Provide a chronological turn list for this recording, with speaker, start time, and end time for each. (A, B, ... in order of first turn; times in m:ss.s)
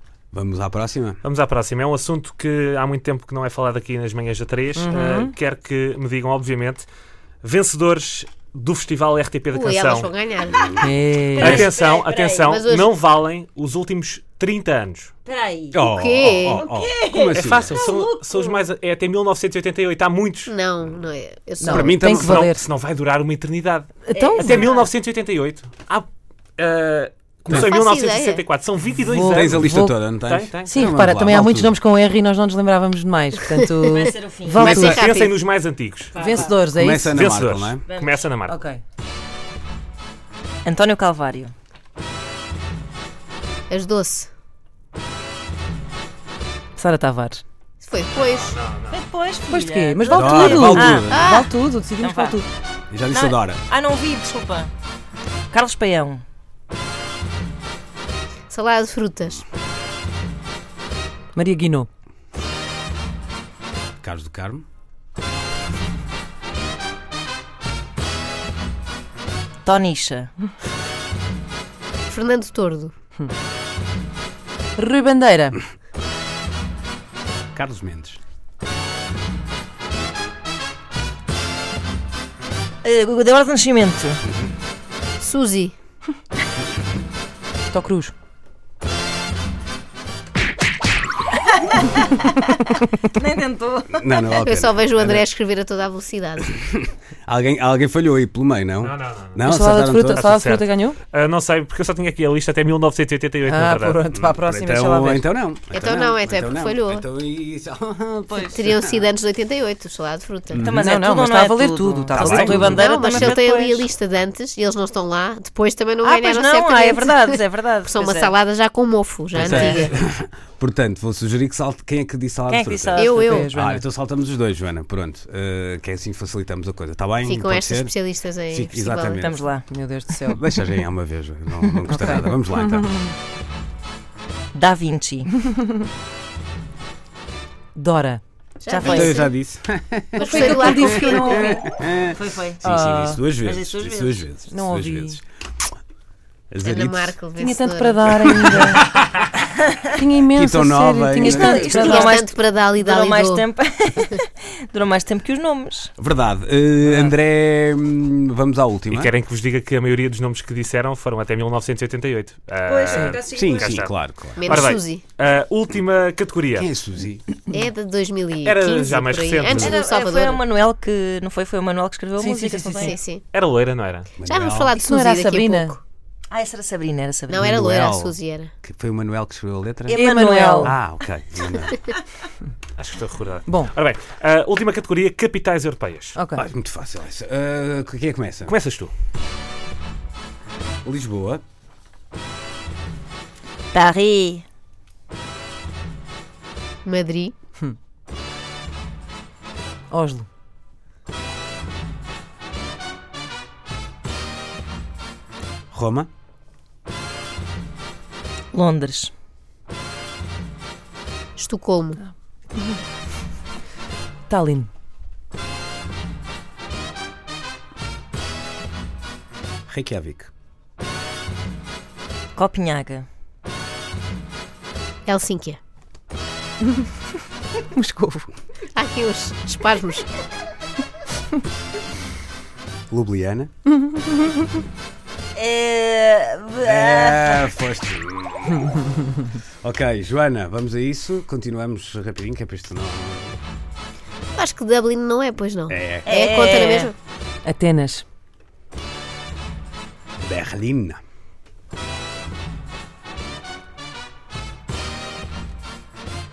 0:00.3-0:01.2 A
0:01.2-0:06.9 B
0:04.8-0:05.3 C
0:07.4-0:10.1 B
0:09.5-0:10.9 D
0:10.8-0:11.7 C
0:11.3-0:12.5 E
0:11.4-0:15.1 B
0:12.5-0:12.9 D
0:15.2-0:15.8 E
0:15.7-0:17.7 A
0:15.8-0:16.6 D
0:16.4-0:18.6 E
0:17.3-0:20.5 B
0:20.4-0:22.0 D
0:21.6-0:22.6 C
0:21.7-0:22.5 A
0:22.1-0:29.6 B
0:24.1-0:24.7 C
0:24.1-0:24.9 E
0:27.5-0:28.4 D
0:29.0-0:30.0 C
0:29.2-0:31.8 A
0:30.2-0:30.9 B
0:30.7-0:35.0 C
0:33.5-0:33.9 D
0:33.9-0:34.6 E
0:34.6-0:35.4 D
0:34.6-0:36.1 B
0:36.1-0:36.6 E
0:36.2-0:37.1 C
0:36.7-0:37.8 A
0:37.1-0:38.6 B
0:37.9-0:38.3 E
0:38.5-0:38.8 C
0:40.6-0:41.5 E
0:43.7-0:44.3 D
0:46.8-0:47.4 C
0:47.8-0:48.6 D
0:48.2-0:49.0 B
0:48.9-0:51.0 E
0:49.5-0:52.4 C
0:50.1-0:51.4 A
0:51.1-0:51.5 D
0:52.0-0:52.4 E
0:52.9-0:53.6 A
0:53.1-0:54.7 E
0:55.5-0:56.2 E
0:58.5-0:59.4 D
1:01.3-1:01.9 C
1:04.0-1:04.6 A
1:09.6-1:10.3 E
1:12.1-1:12.9 D
1:14.8-1:15.6 C
1:17.5-1:18.2 A
1:22.8-1:24.2 E
1:25.2-1:25.7 D
1:27.7-1:28.1 C
1:31.7-1:34.4 E
1:33.9-1:35.2 A
1:34.4-1:36.6 D
1:36.5-1:40.3 A
1:38.8-1:44.0 B
1:39.4-1:41.0 C
1:43.4-1:45.2 C
1:44.1-1:49.1 A
1:45.7-1:47.0 D
1:48.5-1:50.6 D
1:50.5-1:50.8 A
1:50.6-1:53.9 E
1:50.7-1:52.9 C
1:52.1-1:53.4 A
1:52.6-1:59.9 D
1:56.0-1:58.3 E
1:59.3-2:09.4 A
2:02.5-2:03.4 E
2:03.0-2:03.5 D
2:03.1-2:03.8 C
2:07.2-2:09.4 D
2:09.2-2:09.7 E
2:09.7-2:10.4 C
2:10.3-2:12.9 A
2:11.9-2:12.8 C
2:14.5-2:15.3 E
2:17.8-2:18.2 C
2:18.6-2:19.3 D
2:18.7-2:19.2 E
2:18.8-2:25.2 A
2:20.2-2:21.6 D
2:20.2-2:21.6 C
2:22.1-2:22.6 E
2:22.6-2:23.2 C
2:23.4-2:24.3 E
2:24.5-2:25.2 C
2:26.5-2:27.2 A
2:26.6-2:28.6 D
2:27.4-2:29.0 C
2:28.6-2:28.8 E
2:30.0-2:32.1 C
2:30.3-2:31.8 A
2:31.2-2:35.9 E
2:31.7-2:33.5 D
2:36.0-2:39.1 A
2:36.9-2:37.1 C
2:38.9-2:46.7 B
2:42.6-2:43.7 E
2:42.9-2:43.2 C
2:43.3-2:44.6 A
2:44.4-2:45.0 D
2:46.5-2:47.2 A
2:47.5-2:50.4 D
2:48.4-2:49.7 B
2:49.5-2:52.9 E
2:52.2-2:53.0 C
2:52.8-2:53.2 D
2:53.3-2:54.1 B
2:54.2-2:54.7 A
2:54.2-2:55.8 D
2:54.8-2:55.8 C
2:56.3-2:57.6 E
2:57.3-2:58.5 D
2:57.4-3:00.0 A
2:59.9-3:00.8 E
2:59.9-3:00.7 C
3:00.6-3:01.8 A
3:02.8-3:06.2 B
3:03.5-3:03.7 C
3:06.2-3:06.4 C
3:06.4-3:08.5 A
3:08.5-3:08.9 B
3:10.8-3:11.4 A
3:13.7-3:14.4 E
3:16.8-3:17.3 D
3:19.9-3:20.3 C
3:25.7-3:26.1 A
3:28.5-3:29.1 E
3:31.4-3:32.0 D
3:32.0-3:32.8 C
3:34.3-3:34.7 C
3:39.7-3:40.3 A
3:42.4-3:43.0 E
3:45.0-3:45.6 D
3:47.7-3:48.2 C
3:48.7-3:50.1 D
3:52.9-3:53.5 A
3:55.3-3:57.5 E
3:56.6-3:58.8 A
3:59.6-4:03.4 A
4:04.3-4:06.9 D
4:05.7-4:06.1 A
4:06.0-4:06.9 E
4:07.4-4:08.0 C
4:10.2-4:11.0 A